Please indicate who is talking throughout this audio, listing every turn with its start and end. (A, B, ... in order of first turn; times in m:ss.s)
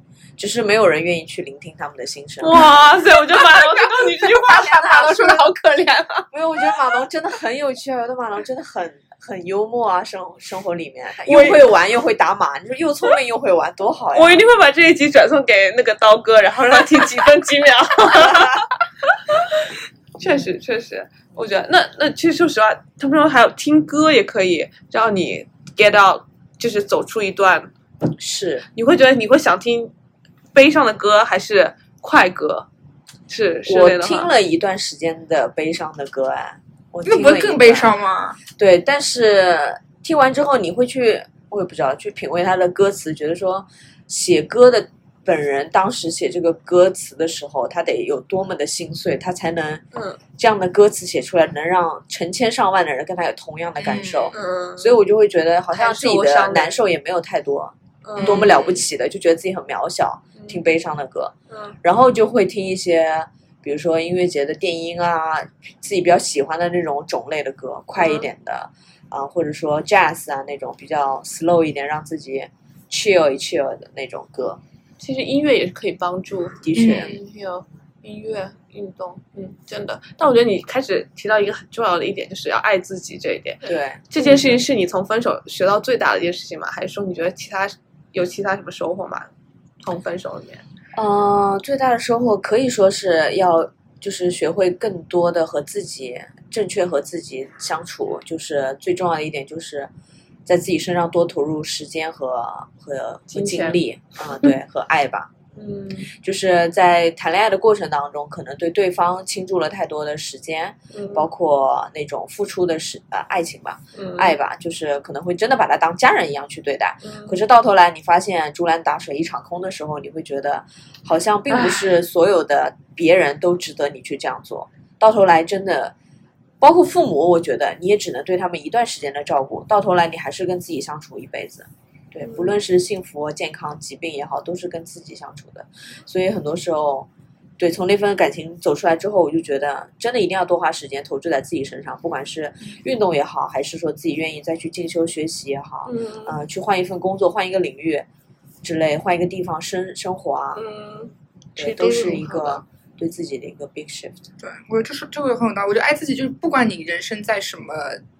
0:00.4-0:02.7 A
0:02.4-0:06.2 B
0:03.5-0:06.1 C
0:04.4-0:05.4 A
0:06.3-0:14.4 A
0:11.2-0:11.6 B
0:14.1-0:27.7 B
0:28.2-0:28.6 A
0:28.7-0:29.9 B
0:30.5-0:32.7 B
0:33.3-0:34.3 B
0:33.7-0:37.9 A
0:37.0-0:38.4 C
0:38.6-0:49.8 A
0:49.9-0:50.2 B
0:50.4-1:14.6 A
0:53.8-0:54.3 C
0:54.3-0:55.0 B
0:55.7-0:56.8 B
0:58.0-0:58.8 B
0:58.2-0:58.6 C
1:01.5-1:01.8 B
1:08.0-1:08.2 B
1:15.0-1:29.3 B
1:16.6-1:17.1 A
1:16.8-1:17.1 C
1:23.6-1:24.6 A
1:29.8-1:30.6 B
1:30.9-1:39.9 A
1:40.4-1:45.3 A
1:43.3-1:43.8 B
1:45.6-1:46.1 B
1:46.1-2:05.9 A
1:50.9-1:51.2 B
1:54.0-1:54.3 B
1:57.0-1:57.4 B
2:01.5-2:01.8 B
2:06.6-2:17.1 A
2:17.6-2:28.0 A
2:25.8-2:26.4 B
2:28.6-2:30.6 A
2:30.6-2:32.6 B
2:31.6-2:34.2 A
2:34.4-2:38.0 C